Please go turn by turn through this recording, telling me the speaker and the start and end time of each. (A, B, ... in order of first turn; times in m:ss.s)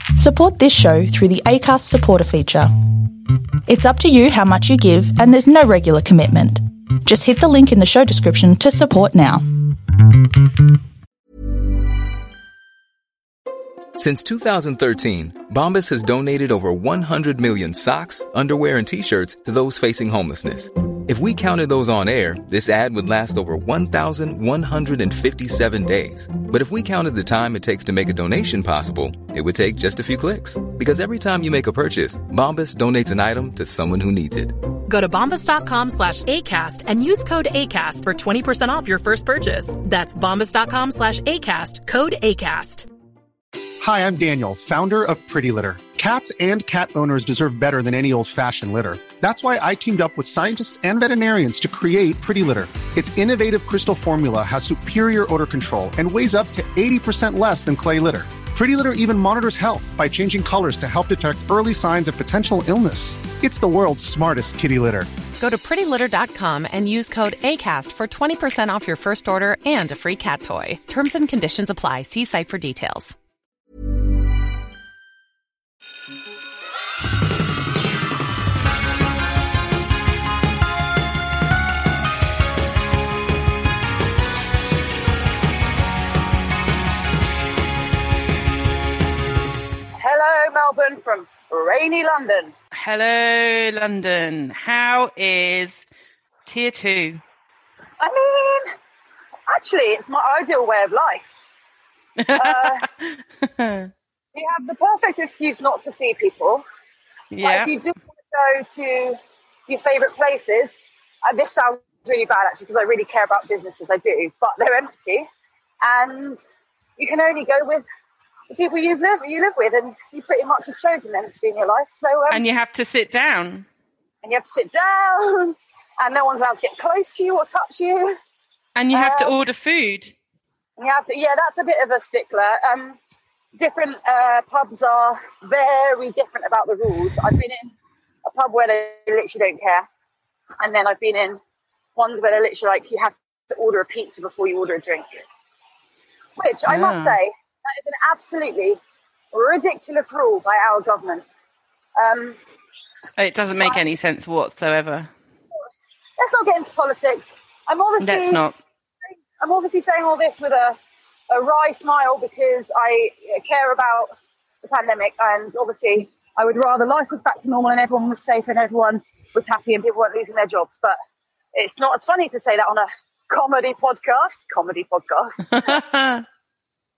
0:00.2-0:02.7 A
0:03.6-0:09.4 A
0:14.0-0:34.5 B
0:34.9-0:42.8 C
0:43.8-1:05.1 D
1:05.4-1:13.1 E
1:30.0-1:32.5 F
1:32.8-1:35.8 G
1:36.4-1:37.2 G
1:38.0-1:38.7 F
1:39.5-1:41.3 F
1:42.2-1:43.9 G
1:42.4-1:42.8 F
1:44.3-1:46.6 F
1:47.3-1:47.7 G
1:47.4-1:50.7 F
1:51.2-1:55.3 F
1:55.8-1:56.4 F
1:57.0-1:57.8 F
1:58.5-2:02.4 F
2:02.3-2:03.6 G
2:04.2-2:08.2 F
2:08.7-2:10.1 G
2:08.9-2:09.3 F
2:10.8-2:13.0 F
2:13.5-2:17.7 F
2:18.2-2:19.9 F
2:20.6-2:21.4 F
2:22.0-2:25.1 F
2:26.4-2:28.8 F
2:26.7-2:27.2 G
2:29.3-2:31.2 F
2:32.0-2:32.4 F
2:33.2-2:35.1 G
2:36.2-2:38.4 F
2:38.0-2:38.6 G
2:39.4-2:40.8 F
2:41.3-2:51.0 F
2:51.5-2:55.8 F
2:55.5-2:56.2 G